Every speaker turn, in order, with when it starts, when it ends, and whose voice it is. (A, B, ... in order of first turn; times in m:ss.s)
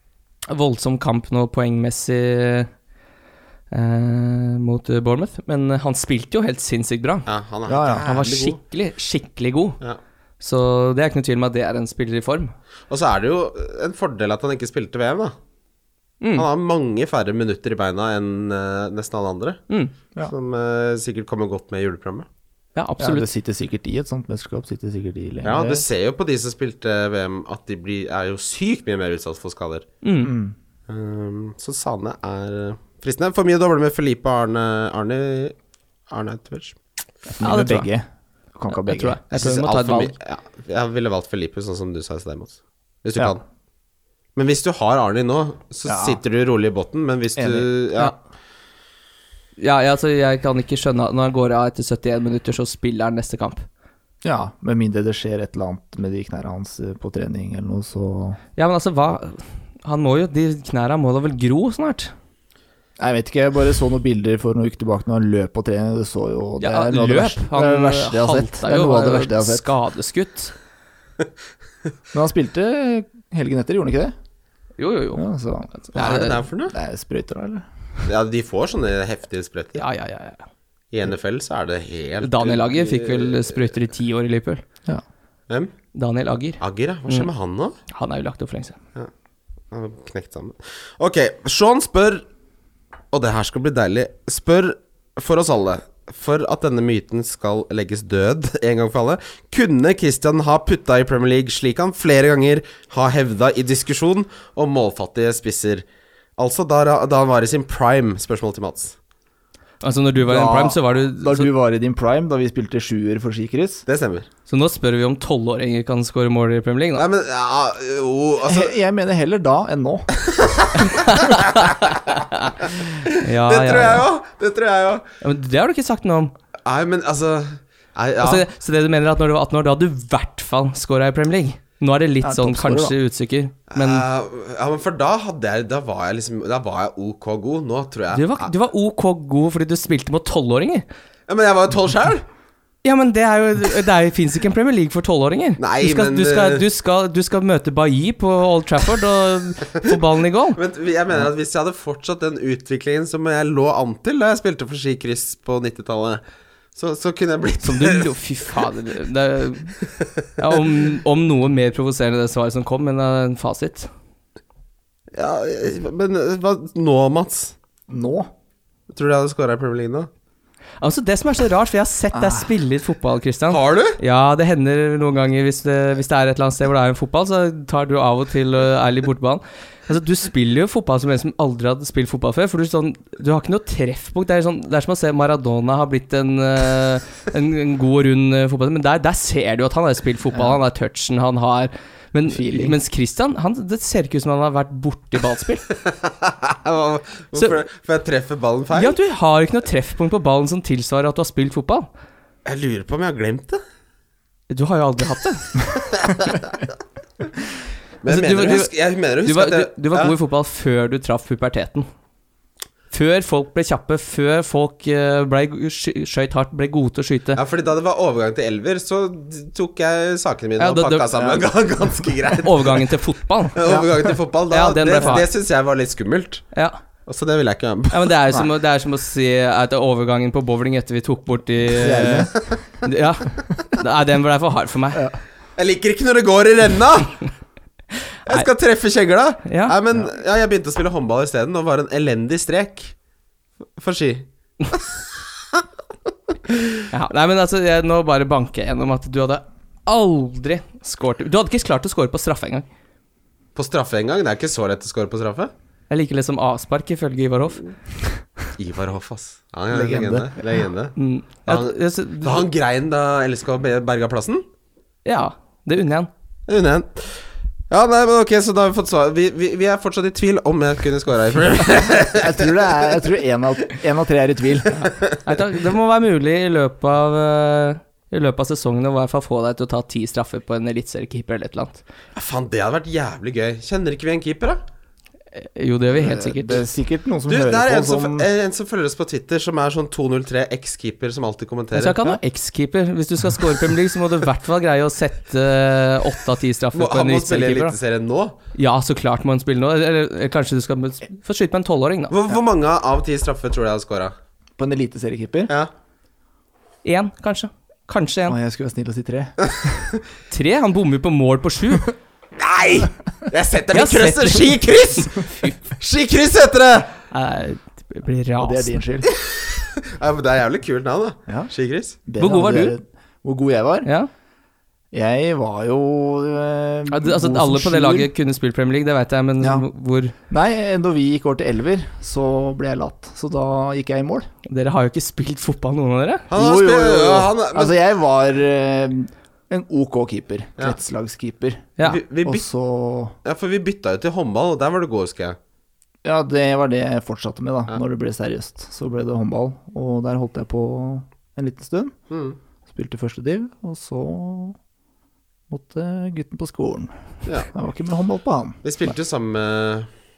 0:00.5-0:02.7 A
0:03.7-0:07.3 A
0:07.2-0:08.6 B
0:07.7-0:08.1 C
0:08.0-0:09.8 A
0:10.4-0:12.5 A
0:12.9-0:15.3 B
0:16.2-0:16.4 A
0:16.4-0:19.6 B
0:20.2-0:22.3 B
0:22.8-0:23.2 A
0:23.0-0:25.8 C
0:25.4-0:29.9 B
0:30.0-0:30.3 A
0:30.2-0:30.6 C
0:30.9-0:35.5 B
0:36.1-0:36.8 B
0:37.3-0:39.2 C
0:37.4-0:37.9 A
0:38.7-0:40.1 A
0:39.3-0:43.4 B
0:44.4-0:48.2 B
0:45.8-0:46.2 C
0:47.4-0:47.7 C
0:49.6-0:53.6 A
0:54.2-0:58.4 C
0:58.6-1:02.1 A
1:03.0-1:09.7 C
1:06.6-1:10.5 A
1:12.1-1:14.1 C
1:14.8-1:15.2 A
1:15.1-1:17.6 C
1:15.8-1:16.4 A
1:15.9-1:16.7 B
1:18.0-1:19.8 B
1:19.8-1:20.4 A
1:20.9-1:23.7 B
1:22.2-1:24.6 A
1:25.9-1:27.3 A
1:26.6-1:27.8 B
1:27.9-1:28.8 A
1:29.7-1:32.2 B
1:33.1-1:45.8 B
1:46.4-1:49.0 B
1:49.8-1:51.5 A
1:50.2-1:53.8 C
1:53.8-1:54.3 B
1:54.5-1:57.0 A
1:57.0-1:58.7 B
1:58.4-2:00.2 C
2:00.2-2:02.0 B
2:00.8-2:02.5 A
2:02.7-2:05.0 B
2:03.2-2:04.0 A
2:05.2-2:06.3 A
2:06.6-2:08.4 B
2:08.2-2:14.0 A
2:12.2-2:13.0 C
2:13.7-2:18.5 B
2:18.1-2:20.8 A
2:21.3-2:22.2 B
2:22.8-2:30.6 A
2:25.6-2:26.6 B
2:30.5-2:36.2 B
2:36.7-2:38.1 B
2:37.6-2:39.8 A
2:40.4-2:43.9 A
2:45.1-2:47.5 B
2:47.9-2:48.3 C
2:48.9-2:50.1 B
2:50.8-3:15.6 A
2:52.1-2:52.5 C
2:53.5-2:54.0 B
3:12.3-3:12.8 C
3:15.8-3:19.0 B
3:18.7-3:21.9 A
3:22.4-3:23.6 B
3:24.5-3:25.6 A
3:25.8-3:26.5 B
3:28.0-3:30.1 B
3:28.1-3:28.7 A
3:29.2-3:31.9 A
3:32.9-3:37.4 A
3:37.3-3:42.8 B
3:40.6-3:41.1 A
3:41.1-3:41.4 C
3:42.4-3:43.6 A
3:43.5-3:46.5 B
3:43.6-3:44.1 C
3:44.5-3:45.3 A
3:47.0-3:48.2 B
3:47.9-3:52.3 A
3:51.8-3:52.3 C
3:52.8-3:55.1 A
3:55.6-3:57.2 B
3:58.3-4:02.9 B
3:59.4-3:59.8 A
4:03.8-4:05.6 B
4:06.9-4:12.6 A
4:13.5-4:15.5 B
4:15.9-4:17.6 A
4:18.6-4:24.4 B
4:19.7-4:20.4 C
4:21.0-4:22.4 A
4:25.0-4:26.1 A
4:26.5-4:32.6 B
4:32.1-4:34.8 C
4:34.8-4:41.8 A
4:42.1-4:44.6 B
4:45.3-4:46.7 A
4:45.9-4:48.3 C
4:47.3-4:52.0 B
4:51.7-4:57.7 A
4:56.7-4:58.4 B
4:58.5-5:02.1 A
5:02.1-5:04.1 B
5:04.6-5:05.5 C
5:06.8-5:08.4 A
5:08.3-5:09.4 C
5:10.3-5:11.9 A
5:12.4-5:16.9 B
5:13.7-5:14.6 A
5:15.1-5:15.5 A
5:17.1-5:18.8 A
5:18.4-5:19.1 C
5:19.1-5:22.0 B
5:22.0-5:23.9 C
5:22.2-5:22.7 A
5:24.9-5:28.1 C
5:26.9-5:30.1 A
5:29.4-5:29.6 C
5:30.3-5:34.3 C
5:34.4-5:36.2 A
5:36.3-5:37.8 B
5:36.3-5:43.2 C
5:41.8-5:42.4 B
5:43.2-5:45.4 B
5:46.0-5:52.0 C
5:52.1-5:52.4 B
5:52.7-5:54.6 C
5:55.5-5:56.9 C
5:57.2-5:57.5 B
5:57.5-5:58.9 C
5:58.6-5:59.9 B